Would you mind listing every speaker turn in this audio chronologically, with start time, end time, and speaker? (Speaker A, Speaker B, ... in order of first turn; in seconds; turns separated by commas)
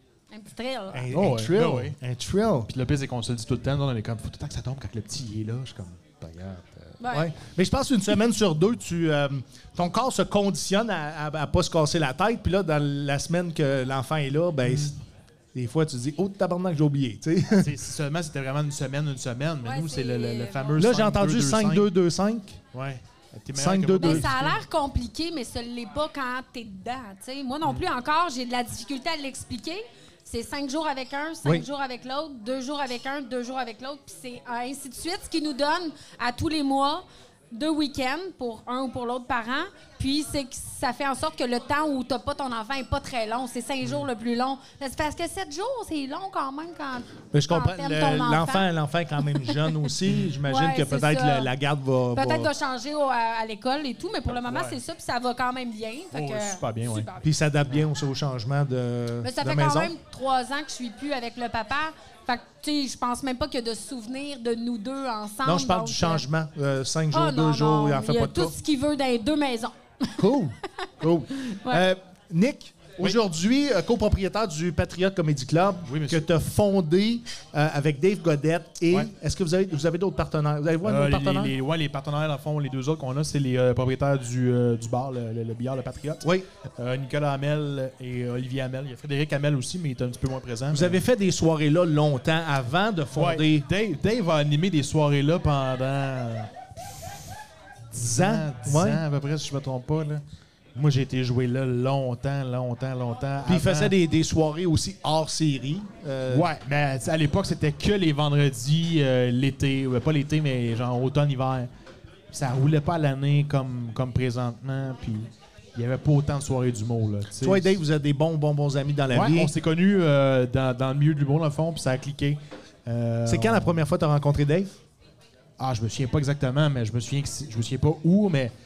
Speaker A: 0.3-1.1, Speaker B: 0.9-2.7, Speaker C: 1.1-2.0, Speaker C: 2.7-7.0, Speaker A: 7.0-7.3, Speaker B: 7.1-14.9, Speaker C: 14.6-14.9, Speaker B: 15.5-17.7, Speaker C: 17.5-21.9, Speaker A: 19.6-20.8, Speaker B: 20.8-22.6, Speaker C: 22.7-24.6, Speaker B: 23.5-24.3, Speaker A: 24.0-48.7, Speaker B: 47.3-52.5, Speaker A: 49.4-49.7, Speaker C: 50.0-50.3, Speaker A: 50.4-51.5, Speaker A: 52.1-57.3, Speaker C: 54.5-54.8, Speaker C: 56.1-57.1, Speaker B: 57.2-59.9, Speaker A: 59.2-66.2, Speaker B: 65.4-68.5, Speaker A: 67.1-71.8, Speaker B: 70.2-81.5, Speaker C: 75.8-76.3, Speaker C: 80.8-91.0, Speaker B: 90.7-93.6, Speaker C: 93.1-96.5, Speaker C: 97.9-100.2, Speaker B: 98.0-99.0, Speaker C: 100.7-103.9, Speaker B: 103.5-106.5, Speaker C: 106.3-111.7, Speaker C: 112.3-117.8, Speaker B: 117.4-119.5, Speaker C: 119.1-123.8, Speaker B: 123.3-124.8, Speaker C: 125.6-128.5